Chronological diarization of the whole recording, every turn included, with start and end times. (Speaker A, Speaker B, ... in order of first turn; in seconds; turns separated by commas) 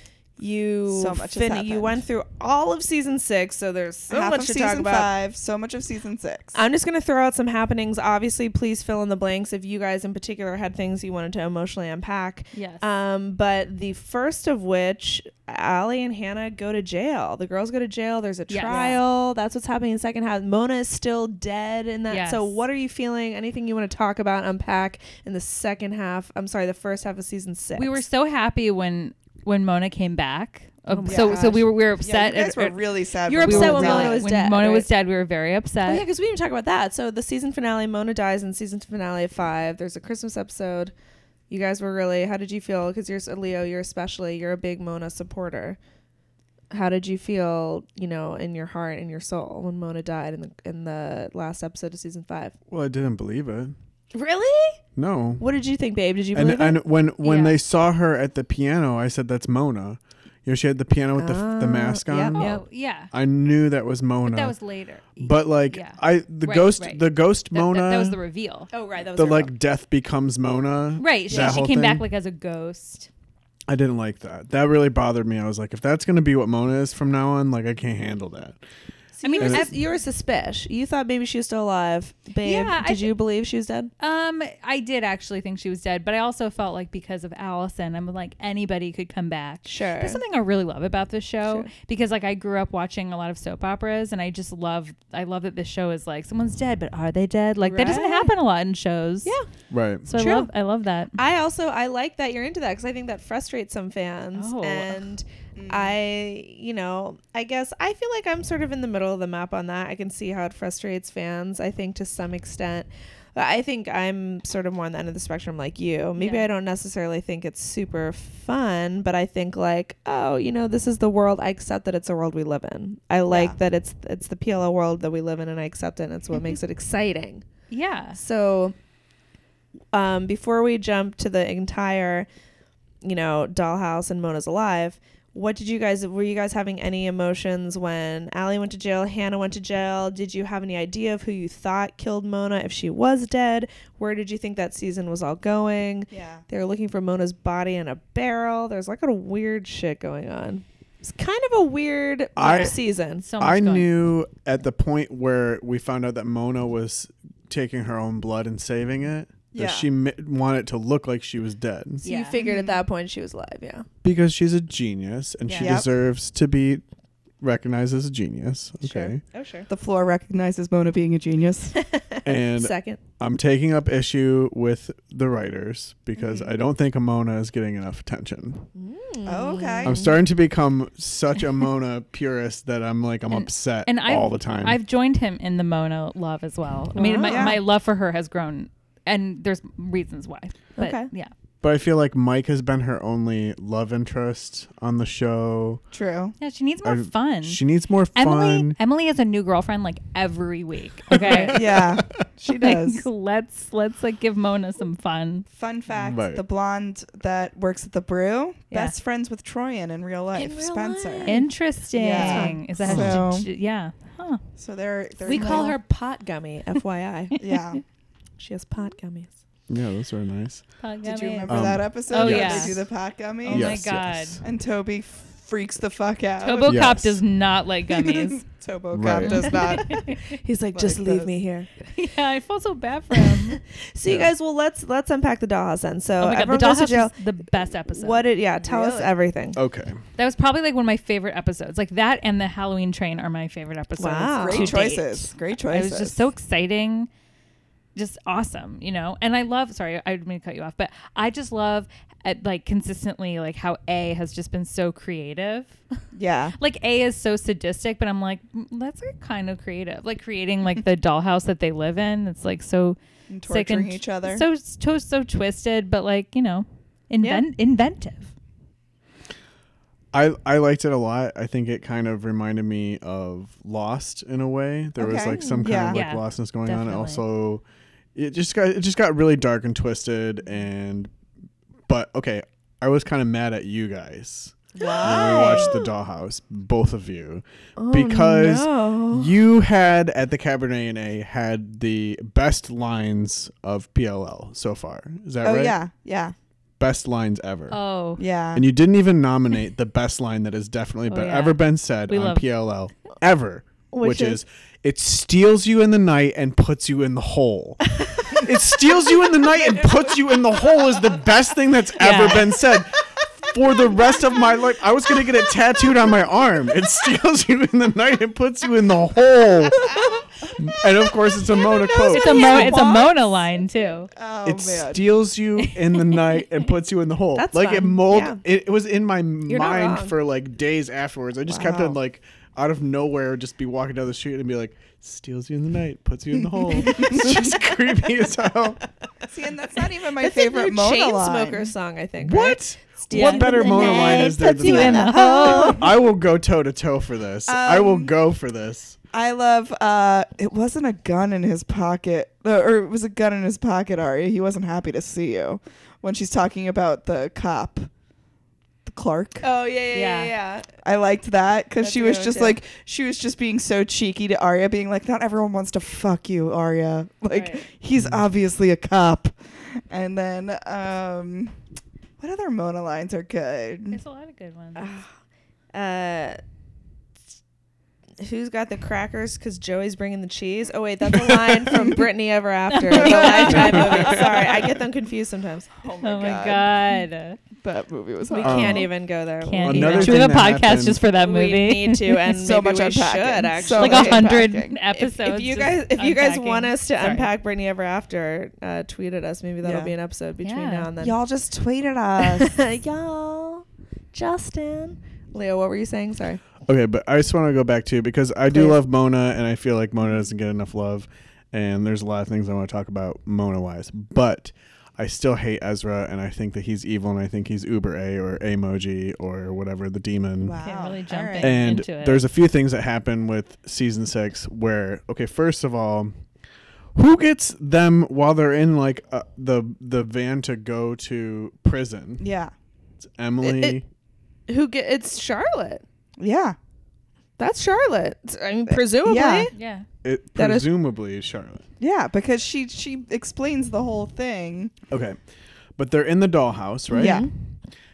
Speaker A: 0.4-5.1, Speaker B: 0.9-2.0, Speaker B: 4.1-6.6, Speaker A: 6.5-28.0, Speaker C: 12.5-12.8, Speaker C: 18.5-18.9, Speaker B: 18.6-19.0, Speaker C: 22.1-22.6, Speaker C: 27.8-36.0, Speaker A: 30.9-31.6, Speaker B: 31.1-34.2, Speaker A: 33.3-34.9, Speaker A: 35.8-40.9, Speaker A: 41.5-45.8, Speaker A: 46.7-52.5, Speaker D: 52.7-53.7, Speaker A: 54.1-54.8, Speaker D: 55.0-55.4, Speaker A: 55.4-56.8, Speaker D: 56.3-64.5, Speaker C: 57.2-57.6, Speaker A: 61.2-62.5, Speaker C: 62.3-63.1, Speaker C: 64.2-68.7, Speaker D: 65.2-68.2, Speaker A: 68.7-69.5, Speaker D: 69.1-72.0, Speaker C: 71.0-73.1, Speaker A: 71.3-71.6, Speaker D: 73.7-78.6, Speaker A: 79.2-83.9, Speaker C: 79.2-79.7, Speaker D: 79.4-79.7, Speaker C: 82.4-83.1, Speaker C: 84.0-99.3, Speaker A: 89.6-90.2, Speaker A: 91.4-91.7, Speaker A: 97.6-98.3, Speaker D: 99.7-100.1, Speaker C: 100.1-101.2, Speaker A: 100.1-100.5, Speaker A: 101.2-127.5, Speaker C: 104.3-105.1, Speaker B: 105.6-106.0, Speaker C: 116.2-116.5, Speaker B: 123.3-123.6, Speaker C: 127.7-128.2, Speaker A: 128.1-128.7, Speaker A: 129.9-132.3, Speaker A: 133.0-153.2, Speaker B: 146.1-146.4, Speaker D: 152.4-152.8, Speaker C: 153.2-153.9, Speaker D: 153.4-162.0, Speaker B: 159.5-159.9, Speaker C: 162.0-162.4, Speaker A: 162.0-163.8, Speaker B: 162.4-162.8, Speaker D: 164.0-166.8, Speaker C: 165.5-165.8, Speaker B: 165.6-165.9, Speaker D: 167.4-169.2, Speaker A: 168.8-169.7, Speaker B: 169.7-171.8, Speaker A: 171.9-173.0, Speaker D: 172.2-178.7, Speaker B: 176.2-176.5, Speaker A: 178.7-180.1, Speaker B: 179.2-180.0, Speaker D: 179.8-184.8, Speaker C: 183.8-191.3, Speaker A: 186.9-187.6, Speaker B: 187.2-187.6, Speaker B: 190.8-191.1, Speaker D: 191.6-195.8, Speaker B: 195.9-196.3, Speaker C: 196.4-197.6, Speaker D: 196.8-198.8, Speaker C: 198.1-201.7, Speaker D: 201.1-202.0, Speaker B: 201.2-203.1, Speaker C: 202.6-205.4, Speaker B: 205.5-213.5, Speaker D: 205.9-206.4, Speaker C: 208.7-208.9, Speaker A: 210.3-211.5, Speaker C: 211.3-214.4, Speaker A: 212.1-212.6, Speaker D: 212.8-213.2, Speaker B: 214.6-215.7, Speaker A: 215.2-217.4, Speaker C: 215.3-215.8, Speaker B: 217.4-217.8, Speaker A: 218.4-219.4, Speaker D: 219.7-220.7, Speaker C: 220.8-222.8, Speaker B: 221.0-223.8, Speaker D: 221.5-222.8, Speaker C: 223.4-224.4, Speaker D: 223.5-224.4, Speaker B: 224.4-226.8, Speaker C: 226.4-228.4, Speaker D: 226.7-227.2, Speaker B: 227.9-230.1, Speaker D: 228.9-229.5, Speaker C: 229.2-230.3, Speaker A: 229.5-231.7, Speaker B: 230.7-231.3, Speaker C: 231.8-233.6, Speaker A: 233.2-237.1, Speaker D: 234.1-234.3, Speaker C: 236.2-238.3, Speaker A: 237.8-239.6, Speaker B: 238.6-239.1, Speaker D: 239.6-240.0, Speaker C: 240.2-247.1, Speaker A: 244.0-244.9, Speaker B: 244.3-246.2, Speaker C: 247.9-255.8, Speaker B: 256.1-256.6, Speaker C: 256.6-268.3, Speaker B: 263.3-264.4, Speaker D: 270.1-277.6, Speaker B: 275.0-276.0, Speaker C: 275.9-277.2, Speaker D: 278.1-281.1, Speaker D: 281.9-295.8, Speaker B: 284.8-285.7, Speaker A: 284.8-285.9, Speaker A: 287.8-289.3, Speaker B: 295.4-296.3, Speaker D: 296.8-297.8, Speaker C: 297.7-298.2, Speaker B: 298.2-298.7, Speaker D: 298.6-319.9, Speaker C: 301.1-302.4, Speaker A: 303.9-304.4, Speaker B: 309.6-310.4, Speaker C: 312.0-312.5, Speaker B: 319.9-320.1, Speaker D: 320.4-322.7, Speaker B: 321.6-325.1, Speaker C: 322.1-324.1, Speaker D: 324.4-338.8, Speaker C: 325.6-326.2, Speaker A: 327.4-328.4, Speaker A: 329.5-330.1, Speaker B: 331.5-332.0, Speaker B: 336.6-337.5, Speaker B: 339.3-341.7, Speaker A: 340.2-345.8, Speaker D: 342.2-349.0, Speaker C: 343.1-345.8, Speaker B: 345.1-345.8, Speaker B: 347.5-348.1, Speaker B: 349.1-357.9, Speaker B: 358.9-359.5, Speaker A: 359.4-360.7, Speaker C: 359.9-360.3, Speaker B: 360.8-371.6, Speaker A: 361.8-362.6, Speaker B: 372.2-374.0, Speaker C: 373.9-374.9, Speaker A: 374.8-375.1, Speaker A: 375.7-376.4, Speaker A: 378.2-385.7, Speaker B: 381.7-382.0, Speaker C: 382.7-384.2, Speaker B: 382.9-384.7, Speaker D: 383.4-384.3, Speaker B: 385.8-386.7, Speaker C: 386.0-387.4, Speaker B: 387.6-388.9, Speaker A: 388.3-390.2, Speaker D: 388.4-388.9, Speaker C: 389.4-392.2, Speaker D: 389.6-391.0, Speaker A: 391.1-401.2, Speaker B: 392.3-394.8, Speaker C: 393.8-397.3, Speaker B: 399.6-399.9, Speaker C: 400.4-400.9, Speaker B: 401.0-402.6, Speaker A: 402.2-406.4, Speaker D: 406.7-420.6, Speaker B: 420.4-421.7, Speaker C: 420.6-422.2, Speaker D: 421.4-426.1, Speaker D: 426.9-432.2, Speaker B: 432.2-432.5, Speaker D: 433.0-433.9, Speaker A: 433.4-433.8, Speaker A: 434.5-435.8, Speaker B: 436.2-436.6, Speaker A: 437.4-439.5, Speaker B: 438.7-439.5, Speaker C: 439.5-439.9, Speaker D: 440.0-441.6, Speaker A: 440.4-440.7, Speaker B: 441.8-444.7, Speaker D: 444.9-445.2, Speaker D: 445.8-447.3, Speaker A: 446.9-447.3, Speaker B: 446.9-447.3